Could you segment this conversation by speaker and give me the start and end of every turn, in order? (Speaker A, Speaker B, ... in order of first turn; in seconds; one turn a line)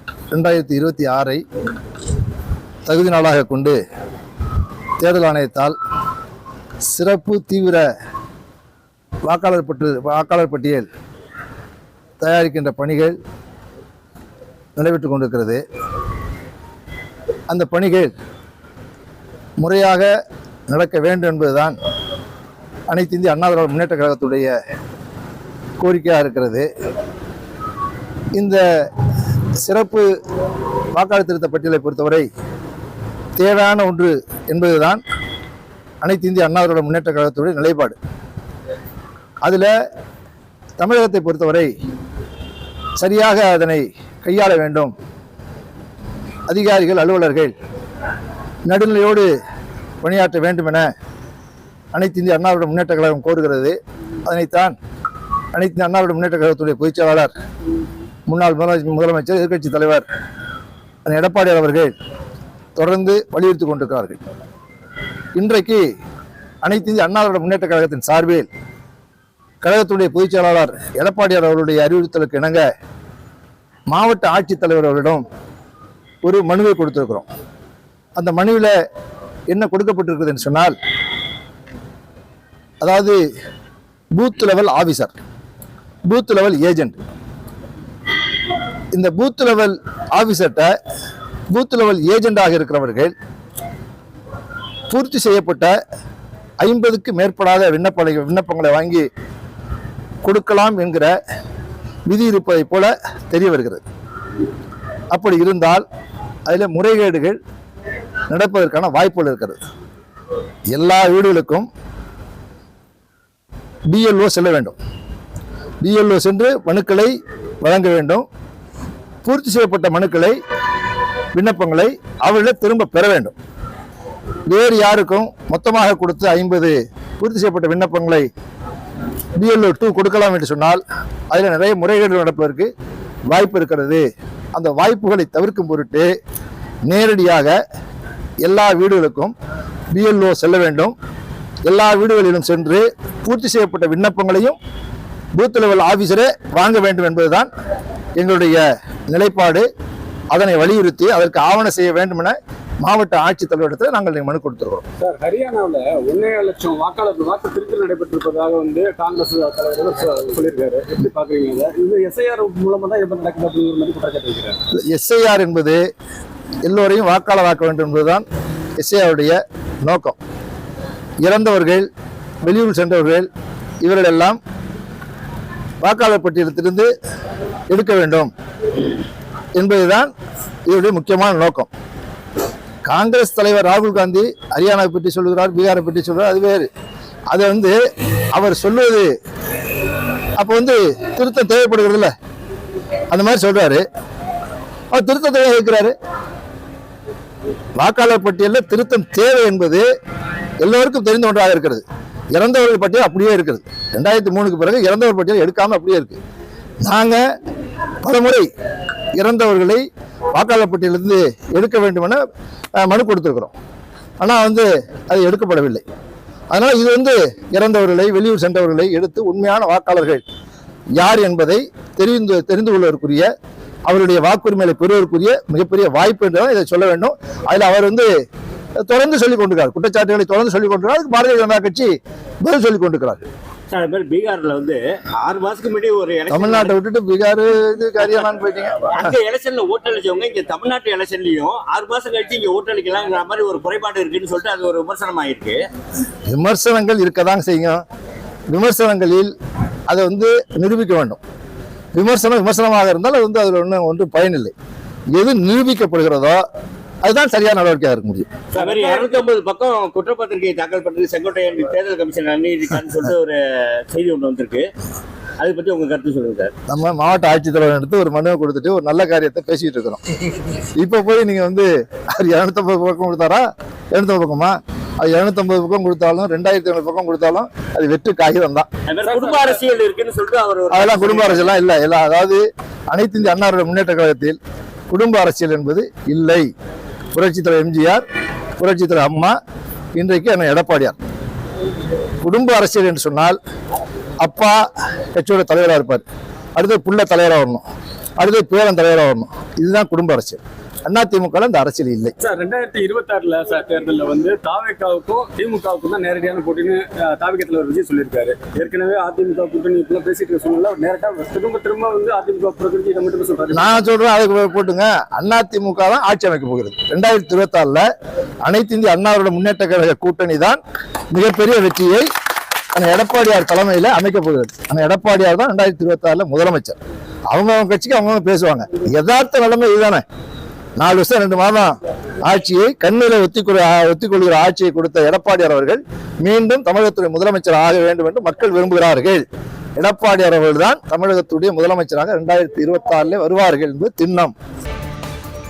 Speaker A: 0.3-1.4
Speaker A: 2.9-3.8
Speaker A: 5.0-5.8
Speaker A: 6.9-7.9
Speaker A: 9.3-10.9
Speaker A: 12.2-13.2
Speaker A: 14.8-15.6
Speaker A: 17.5-18.1
Speaker A: 19.6-20.1
Speaker A: 20.7-21.8
Speaker A: 22.9-24.5
Speaker A: 25.8-26.7
Speaker A: 28.4-28.9
Speaker A: 29.6-30.1
Speaker A: 30.9-32.3
Speaker A: 33.4-35.0
Speaker A: 36.0-38.0
Speaker A: 39.4-39.7
Speaker A: 40.8-41.7
Speaker A: 43.0-44.9
Speaker A: 46.5-47.5
Speaker A: 48.7-49.3
Speaker A: 50.0-50.9
Speaker A: 51.9-53.8
Speaker A: 54.3-54.8
Speaker A: 55.5-57.3
Speaker A: 58.3-60.0
Speaker A: 61.0-61.9
Speaker A: 62.8-64.2
Speaker A: 65.4-65.8
Speaker A: 66.6-68.5
Speaker A: 69.6-72.6
Speaker A: 73.9-75.2
Speaker A: 76.2-77.3
Speaker A: 78.2-78.8
Speaker A: 79.5-80.8
Speaker A: 82.8-83.2
Speaker A: 84.2-85.1
Speaker A: 86.1-87.0
Speaker A: 88.9-90.7
Speaker A: 91.5-93.1
Speaker A: 94.9-95.7
Speaker A: 96.6-99.1
Speaker A: 100.2-101.1
Speaker A: 102.1-103.8
Speaker A: 105.1-105.8
Speaker A: 106.5-107.4
Speaker A: 108.3-109.6
Speaker A: 110.7-111.7
Speaker A: 113.9-114.8
Speaker A: 115.8-118.3
Speaker A: 119.2-120.4
Speaker A: 121.3-123.3
Speaker A: 124.5-128.3
Speaker A: 129.4-132.7
Speaker A: 133.3-136.1
Speaker A: 136.9-137.6
Speaker A: 138.4-139.3
Speaker A: 139.9-140.9
Speaker A: 141.7-144.6
Speaker A: 145.4-147.5
Speaker A: 148.2-149.7
Speaker A: 150.3-154.8
Speaker B: 155.0-164.6
Speaker A: 164.8-165.8
Speaker A: 166.6-168.2
Speaker A: 168.8-170.2
Speaker A: 171.2-171.9
Speaker A: 172.4-173.3
Speaker A: 173.8-174.4
Speaker A: 175.8-176.9
Speaker A: 177.7-178.3
Speaker A: 179.6-180.1
Speaker A: 180.7-181.7
Speaker A: 182.8-186.7
Speaker A: 187.3-187.8
Speaker A: 188.3-189.1
Speaker A: 190.4-192.1
Speaker A: 193.1-193.8
Speaker A: 194.9-195.9
Speaker A: 197.8-199.8
Speaker A: 200.6-201.8
Speaker A: 202.3-206.2
Speaker A: 206.8-207.2
Speaker A: 208.0-208.5
Speaker A: 209.2-212.2
Speaker A: 212.8-213.5
Speaker A: 214.2-215.8
Speaker A: 216.5-220.2
Speaker A: 221.0-223.3
Speaker A: 223.9-228.1
Speaker A: 228.9-233.3
Speaker C: 233.7-236.8
Speaker A: 236.3-239.1
Speaker C: 238.8-245.7
Speaker A: 246.3-247.8
Speaker A: 248.5-249.3
Speaker A: 249.9-251.2
Speaker A: 251.9-254.5
Speaker A: 255.1-256.4
Speaker A: 257.0-258.3
Speaker C: 258.5-264.7
Speaker B: 258.5-259.2
Speaker C: 265.4-266.5
Speaker A: 266.7-270.0
Speaker A: 270.8-278.7
Speaker C: 278.9-281.6
Speaker B: 279.0-279.6
Speaker A: 280.7-284.4
Speaker A: 284.9-286.5
Speaker A: 287.1-288.1
Speaker A: 288.6-289.4
Speaker A: 290.0-291.0
Speaker A: 292.2-293.4
Speaker A: 294.2-294.6
Speaker A: 295.1-296.1
Speaker A: 296.6-297.6
Speaker A: 298.2-302.1
Speaker B: 302.2-313.8
Speaker A: 313.5-317.9
Speaker A: 318.4-320.6
Speaker A: 321.1-322.1
Speaker A: 322.7-326.8
Speaker A: 327.3-330.0
Speaker A: 330.8-339.2
Speaker A: 339.8-344.3